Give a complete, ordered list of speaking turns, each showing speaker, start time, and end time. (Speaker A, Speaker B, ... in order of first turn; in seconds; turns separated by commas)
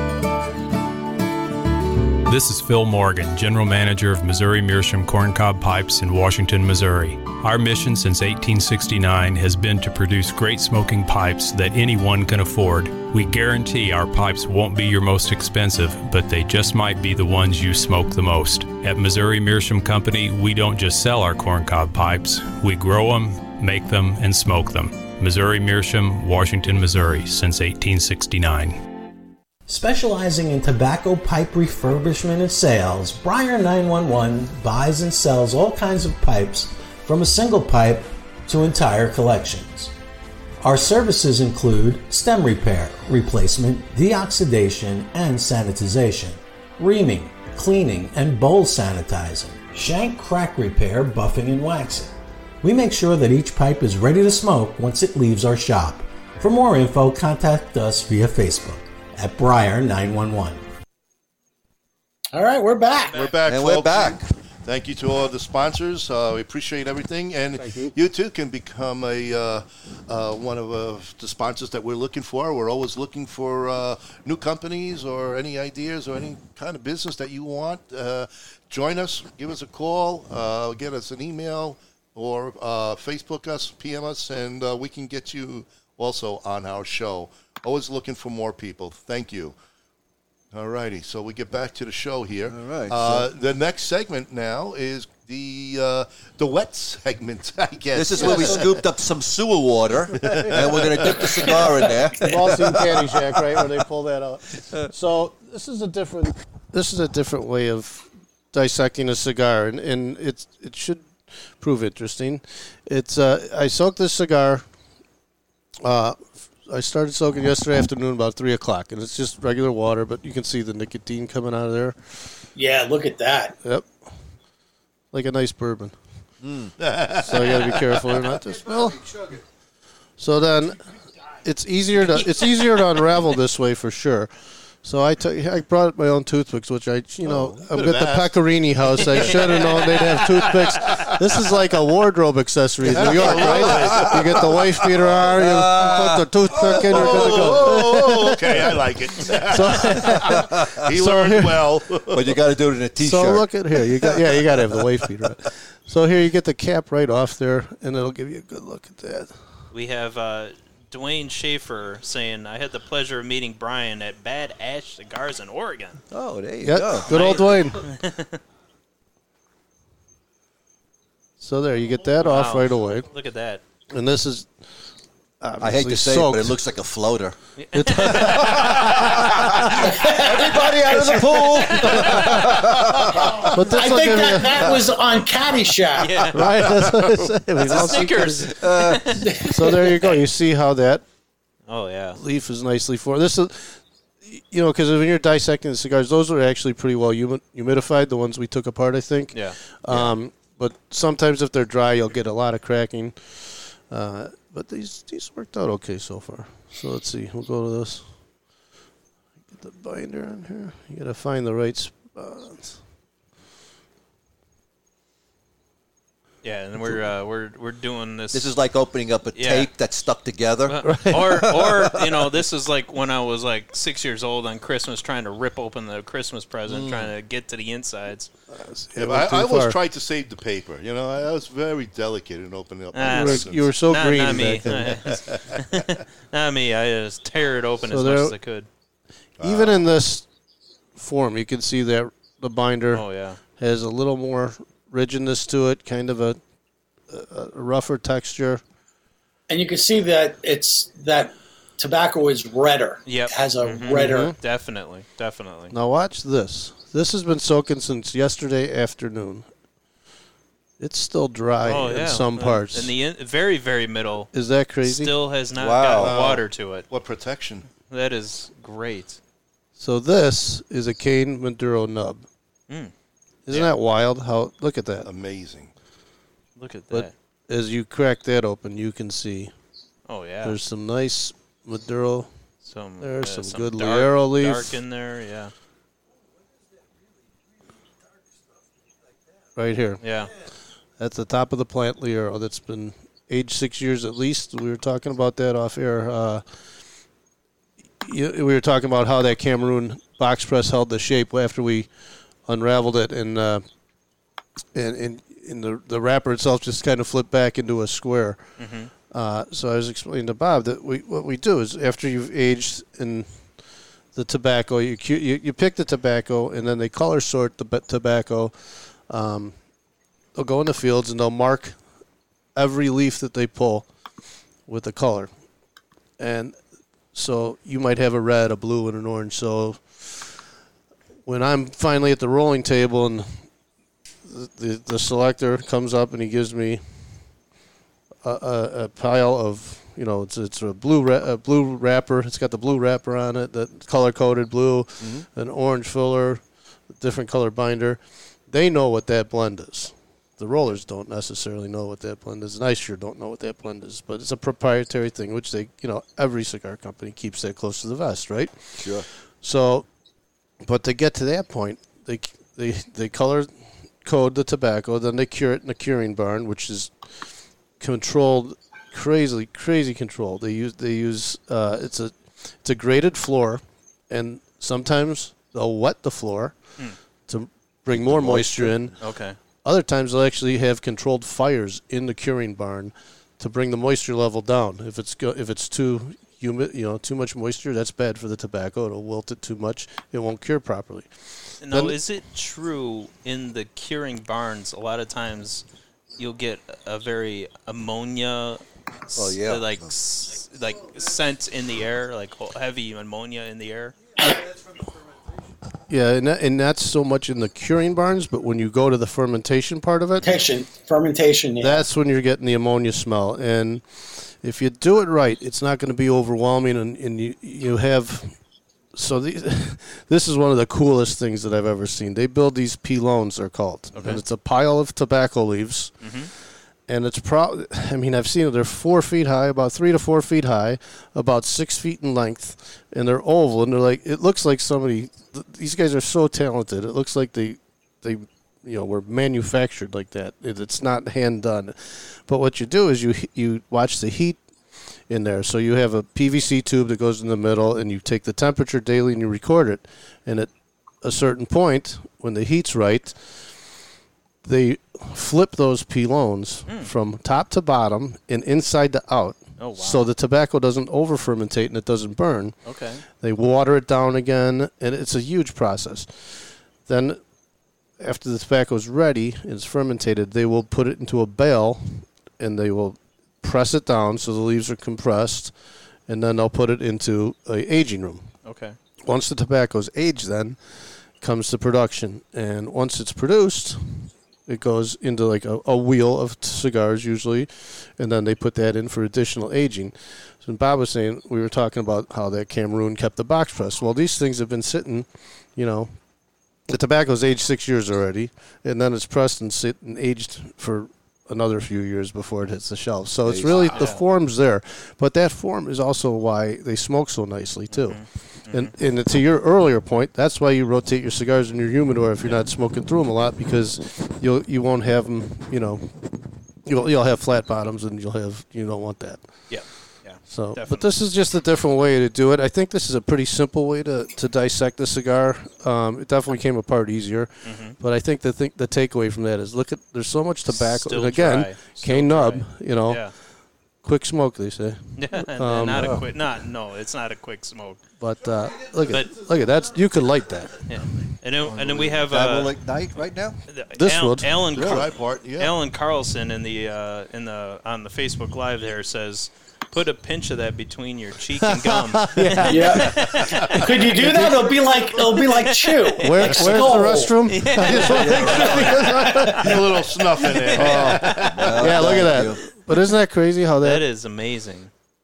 Speaker A: 2.2-28.8, Speaker B: 29.7-39.9, Speaker B: 40.6-60.6, Speaker C: 62.3-63.1, Speaker D: 63.1-89.5, Speaker E: 63.5-64.2, Speaker D: 90.5-98.8, Speaker E: 92.5-93.3, Speaker E: 97.9-103.0, Speaker D: 100.2-101.4, Speaker F: 100.2-100.6, Speaker F: 102.2-114.6, Speaker F: 115.8-122.0, Speaker C: 122.5-123.5, Speaker F: 123.6-123.9, Speaker F: 125.1-125.9, Speaker E: 126.4-126.7, Speaker D: 126.8-128.4, Speaker F: 127.2-129.3, Speaker F: 130.2-130.8, Speaker F: 131.4-134.3, Speaker F: 134.8-148.8, Speaker D: 137.2-141.2, Speaker D: 142.8-145.2, Speaker E: 143.1-144.5, Speaker E: 145.1-147.7, Speaker D: 146.5-152.4, Speaker F: 149.4-151.6, Speaker E: 150.4-150.7, Speaker E: 152.1-153.5, Speaker F: 153.0-159.3, Speaker G: 159.7-166.0, Speaker E: 166.1-167.4, Speaker F: 166.6-167.8, Speaker G: 167.1-168.4, Speaker F: 171.4-173.1, Speaker G: 172.2-173.6, Speaker F: 173.9-174.5, Speaker F: 175.4-176.6, Speaker E: 175.6-177.4, Speaker G: 177.6-178.7, Speaker F: 177.7-179.9, Speaker E: 178.1-183.5, Speaker C: 179.9-180.8, Speaker F: 180.5-182.7, Speaker G: 181.5-182.1, Speaker F: 183.4-184.7, Speaker C: 183.5-186.2, Speaker G: 185.9-186.7, Speaker F: 186.3-188.6, Speaker D: 186.6-187.3, Speaker G: 187.6-189.4, Speaker E: 187.6-189.2, Speaker C: 189.2-189.8, Speaker F: 189.4-191.0, Speaker G: 191.7-192.2, Speaker F: 192.2-208.0, Speaker F: 209.5-212.8, Speaker G: 216.4-218.5, Speaker F: 216.8-217.0, Speaker E: 218.3-222.2, Speaker G: 219.3-219.7, Speaker G: 220.7-228.3, Speaker F: 220.8-221.3, Speaker E: 226.7-227.1, Speaker F: 228.5-229.8, Speaker D: 228.9-233.7, Speaker G: 232.9-238.7, Speaker F: 233.1-235.0, Speaker D: 234.6-236.0, Speaker F: 237.9-238.3, Speaker D: 239.4-239.9, Speaker F: 239.4-240.2, Speaker F: 240.9-243.0, Speaker G: 242.9-243.4, Speaker F: 243.6-246.4, Speaker F: 247.1-248.6, Speaker C: 249.5-254.3, Speaker G: 253.1-255.7, Speaker F: 253.9-254.4, Speaker F: 255.7-259.5, Speaker F: 260.8-262.9, Speaker G: 261.6-264.3, Speaker F: 264.3-265.1, Speaker G: 264.8-266.9, Speaker E: 265.6-266.2, Speaker D: 266.0-267.6, Speaker G: 267.9-269.2, Speaker F: 269.8-272.2, Speaker F: 273.5-275.1, Speaker D: 275.0-275.7, Speaker G: 276.6-277.1, Speaker F: 276.9-279.5, Speaker G: 280.1-280.6, Speaker F: 280.4-282.3, Speaker G: 282.6-285.5, Speaker F: 283.0-284.8, Speaker F: 289.6-290.0, Speaker G: 290.0-290.3, Speaker F: 291.0-296.4, Speaker F: 298.0-301.9, Speaker F: 302.5-303.6, Speaker F: 304.7-308.4, Speaker G: 308.6-308.9, Speaker F: 309.1-313.3, Speaker F: 314.1-318.5, Speaker F: 319.1-319.5, Speaker F: 320.4-321.8, Speaker F: 322.6-323.9, Speaker F: 324.7-325.3, Speaker F: 326.2-326.6, Speaker F: 327.1-330.3, Speaker F: 331.2-333.3, Speaker F: 334.3-336.8, Speaker F: 338.2-346.4, Speaker F: 346.9-358.8, Speaker E: 358.8-359.1, Speaker F: 359.4-359.9, Speaker F: 360.6-363.5, Speaker F: 364.0-367.1, Speaker F: 367.8-376.5, Speaker F: 377.3-378.9, Speaker E: 377.9-379.0, Speaker G: 379.0-379.4, Speaker F: 379.6-391.1, Speaker G: 391.6-395.6, Speaker F: 391.7-391.9, Speaker G: 396.2-404.0, Speaker E: 399.1-399.9, Speaker F: 405.9-410.3, Speaker C: 410.2-411.9, Speaker F: 411.6-418.3, Speaker F: 418.9-425.9, Speaker G: 423.9-424.2, Speaker G: 426.0-426.3, Speaker F: 426.9-444.4, Speaker F: 445.1-450.5, Speaker F: 451.0-453.2, Speaker F: 454.4-462.6, Speaker G: 459.6-460.0, Speaker G: 462.6-463.0, Speaker F: 463.2-466.4, Speaker F: 466.9-467.2, Speaker F: 468.0-475.5, Speaker F: 476.1-478.3, Speaker G: 478.4-478.8, Speaker F: 479.0-480.6, Speaker F: 481.2-495.9, Speaker F: 496.7-516.0, Speaker E: 503.2-504.0, Speaker G: 503.5-504.0, Speaker G: 507.7-508.7, Speaker F: 516.6-519.2, Speaker G: 519.5-520.9, Speaker F: 520.3-533.0, Speaker G: 527.4-527.8, Speaker G: 530.5-533.1, Speaker F: 533.8-536.0, Speaker G: 535.0-537.8, Speaker F: 538.0-540.6, Speaker G: 540.7-542.5, Speaker E: 541.4-543.4, Speaker G: 543.5-553.9, Speaker F: 543.8-544.3, Speaker D: 544.5-545.5, Speaker F: 551.4-554.5, Speaker C: 552.5-557.2, Speaker G: 555.0-561.0, Speaker F: 556.0-559.5, Speaker D: 557.8-562.0, Speaker E: 557.8-558.8, Speaker F: 560.5-563.8, Speaker E: 561.1-562.5, Speaker G: 563.6-564.7